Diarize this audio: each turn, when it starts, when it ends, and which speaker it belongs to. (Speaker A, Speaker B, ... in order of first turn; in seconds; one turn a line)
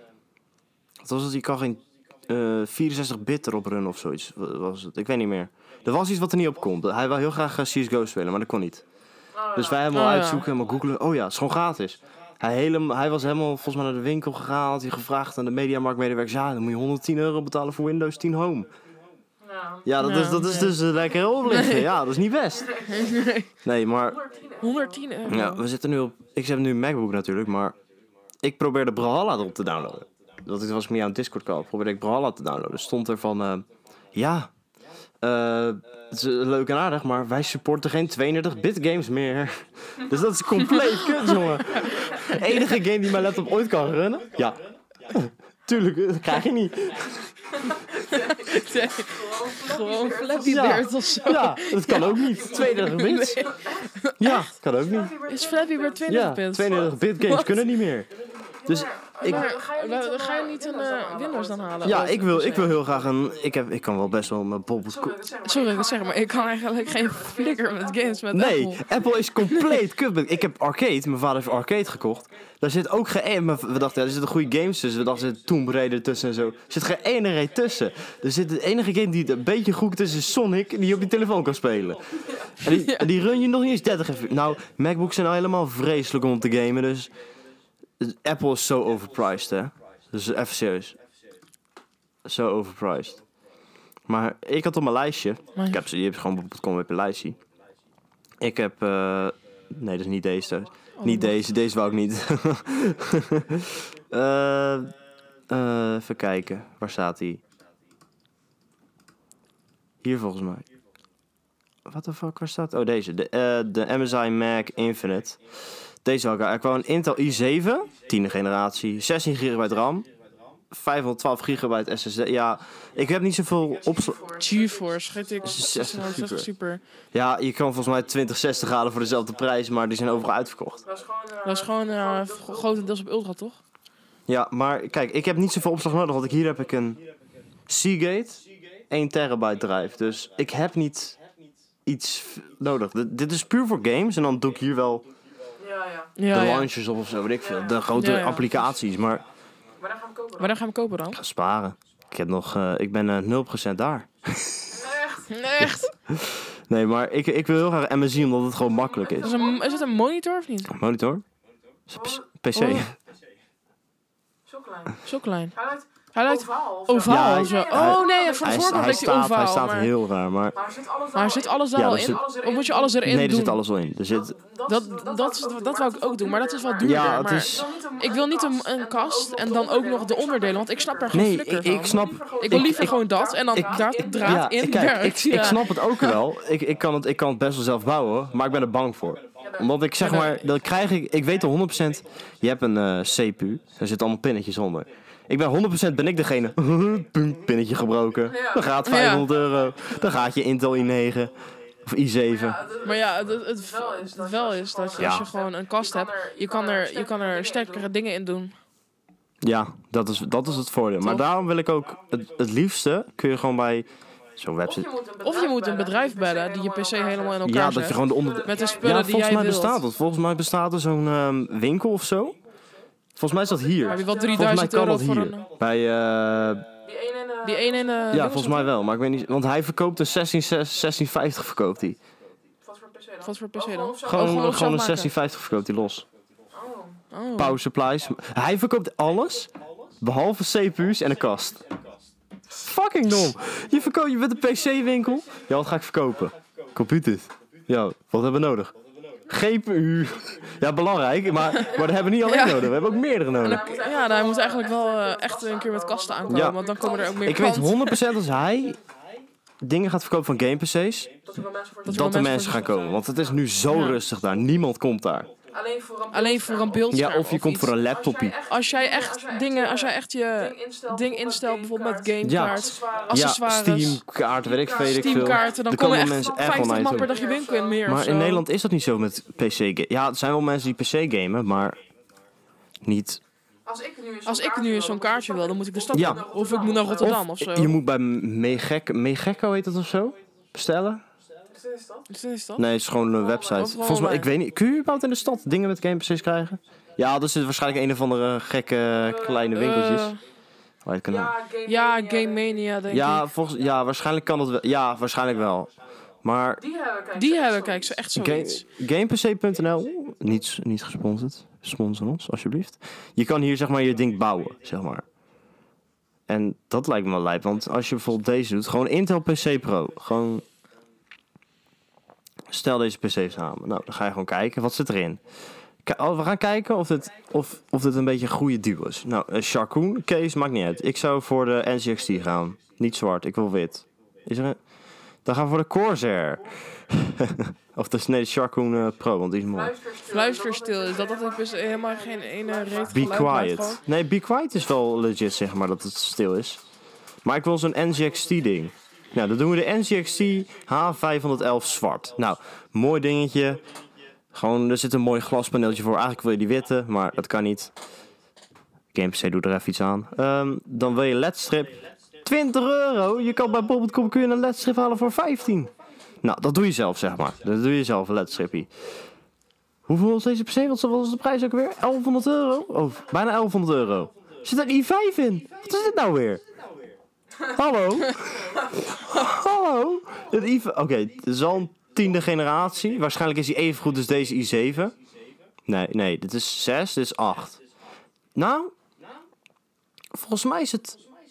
Speaker A: 1.0-8.8
Speaker B: 9.3-9.9
Speaker A: 9.5-18.7
Speaker C: 9.9-10.4
Speaker B: 19.4-19.9
Speaker A: 19.8-22.9
Speaker C: 20.0-20.7
Speaker C: 21.4-21.9
Speaker B: 22.5-23.3
Speaker C: 22.9-23.5
Speaker A: 23.6-24.2
Speaker B: 24.0-25.1
Speaker C: 24.6-25.6
Speaker A: 25.2-27.8
Speaker A: 28.4-34.5
Speaker A: 35.2-47.2
Speaker C: 40.6-42.6
Speaker B: 47.7-53.9
Speaker C: 48.1-54.5
Speaker A: 50.4-53.5
Speaker A: 54.2-55.1
Speaker B: 54.8-57.0
Speaker C: 55.2-57.6
Speaker A: 56.1-58.1
Speaker A: 58.6-59.4
Speaker B: 58.6-61.9
Speaker C: 59.2-62.8
Speaker A: 61.8-65.2
Speaker B: 64.9-68.2
Speaker C: 65.4-68.8
Speaker A: 68.3-87.1
Speaker C: 69.5-69.8
Speaker B: 82.2-82.5
Speaker C: 82.6-83.1
Speaker A: 88.0-91.0
Speaker A: 92.2-93.2
Speaker A: 94.1-97.4
Speaker A: 98.4-104.9
Speaker C: 101.0-101.4
Speaker A: 105.5-107.4
Speaker A: 110.0-110.7
Speaker A: 111.8-115.4
Speaker A: 116.0-120.1
Speaker A: 120.7-124.2
Speaker B: 123.8-126.1
Speaker C: 124.4-126.8
Speaker A: 125.4-126.5
Speaker A: 127.1-130.8
Speaker B: 130.8-132.9
Speaker C: 131.4-133.6
Speaker A: 134.3-137.0
Speaker A: 137.7-141.2
Speaker A: 141.8-145.1
Speaker B: 145.6-146.1
Speaker C: 146.2-146.7
Speaker A: 146.3-149.2
Speaker B: 147.4-147.8
Speaker C: 147.9-148.5
Speaker B: 149.8-150.6
Speaker C: 150.4-151.2
Speaker A: 151.1-154.8
Speaker B: 154.7-155.3
Speaker C: 155.3-155.9
Speaker A: 155.6-159.3
Speaker B: 158.7-159.9
Speaker C: 159.2-160.7
Speaker A: 160.7-161.2
Speaker A: 161.9-162.9
Speaker B: 161.9-162.2
Speaker C: 162.5-162.8
Speaker B: 164.5-169.0
Speaker C: 165.0-165.5
Speaker C: 166.1-169.9
Speaker A: 167.1-170.6
Speaker B: 170.5-173.0
Speaker C: 171.1-173.6
Speaker A: 171.7-172.2
Speaker A: 173.0-174.3
Speaker B: 174.1-184.7
Speaker C: 174.7-186.2
Speaker A: 176.8-177.6
Speaker A: 181.1-183.0
Speaker A: 183.5-201.3
Speaker B: 189.4-189.8
Speaker C: 190.0-190.4
Speaker B: 198.2-198.8
Speaker C: 198.8-199.3
Speaker A: 201.8-202.6
Speaker B: 202.3-207.9
Speaker C: 202.8-208.5
Speaker A: 205.0-205.2
Speaker A: 209.4-214.9
Speaker B: 214.6-219.0
Speaker C: 215.2-219.8
Speaker A: 217.4-222.4
Speaker A: 223.2-226.7
Speaker B: 223.3-224.5
Speaker C: 223.9-225.4
Speaker B: 226.8-228.6
Speaker C: 227.4-228.7
Speaker A: 228.1-232.0
Speaker B: 232.6-234.7
Speaker C: 233.2-235.1
Speaker A: 234.0-236.1
Speaker B: 236.5-237.0
Speaker C: 237.1-237.6
Speaker A: 237.4-241.6
Speaker A: 242.6-248.7
Speaker A: 249.3-253.6
Speaker B: 251.5-252.0
Speaker C: 251.6-252.7
Speaker B: 253.4-257.5
Speaker C: 253.4-258.0
Speaker A: 256.3-256.6
Speaker A: 257.2-258.8
Speaker A: 259.6-261.1
Speaker B: 261.2-263.4
Speaker C: 261.8-262.7
Speaker A: 261.9-265.3
Speaker C: 263.7-264.0
Speaker B: 265.5-273.2
Speaker C: 266.1-267.7
Speaker A: 266.9-268.3
Speaker C: 268.5-278.4
Speaker A: 272.2-277.1
Speaker B: 274.4-277.9
Speaker A: 277.9-281.8
Speaker A: 282.8-283.2
Speaker B: 283.6-287.2
Speaker C: 284.2-287.8
Speaker A: 285.9-286.2
Speaker A: 287.0-291.0
Speaker B: 291.5-292.1
Speaker C: 292.1-292.6
Speaker A: 292.6-300.1
Speaker B: 293.1-293.7
Speaker C: 293.5-294.3
Speaker B: 299.0-299.5
Speaker C: 299.5-300.2
Speaker A: 300.8-301.3
Speaker B: 301.1-302.7
Speaker C: 301.6-303.3
Speaker A: 302.9-305.7
Speaker A: 306.2-306.6
Speaker B: 306.6-308.0
Speaker C: 307.1-308.6
Speaker A: 308.1-315.0
Speaker A: 316.3-320.4
Speaker A: 322.5-325.2
Speaker A: 325.8-334.6
Speaker A: 335.2-339.7
Speaker B: 339.5-343.2
Speaker C: 340.1-343.8
Speaker A: 342.9-346.6
Speaker A: 347.2-353.6
Speaker A: 354.3-357.7
Speaker A: 358.9-365.7
Speaker A: 366.2-368.7
Speaker A: 369.9-376.4
Speaker A: 377.4-384.9
Speaker B: 378.2-378.7
Speaker A: 385.7-387.6
Speaker A: 388.4-388.7
Speaker A: 390.1-391.0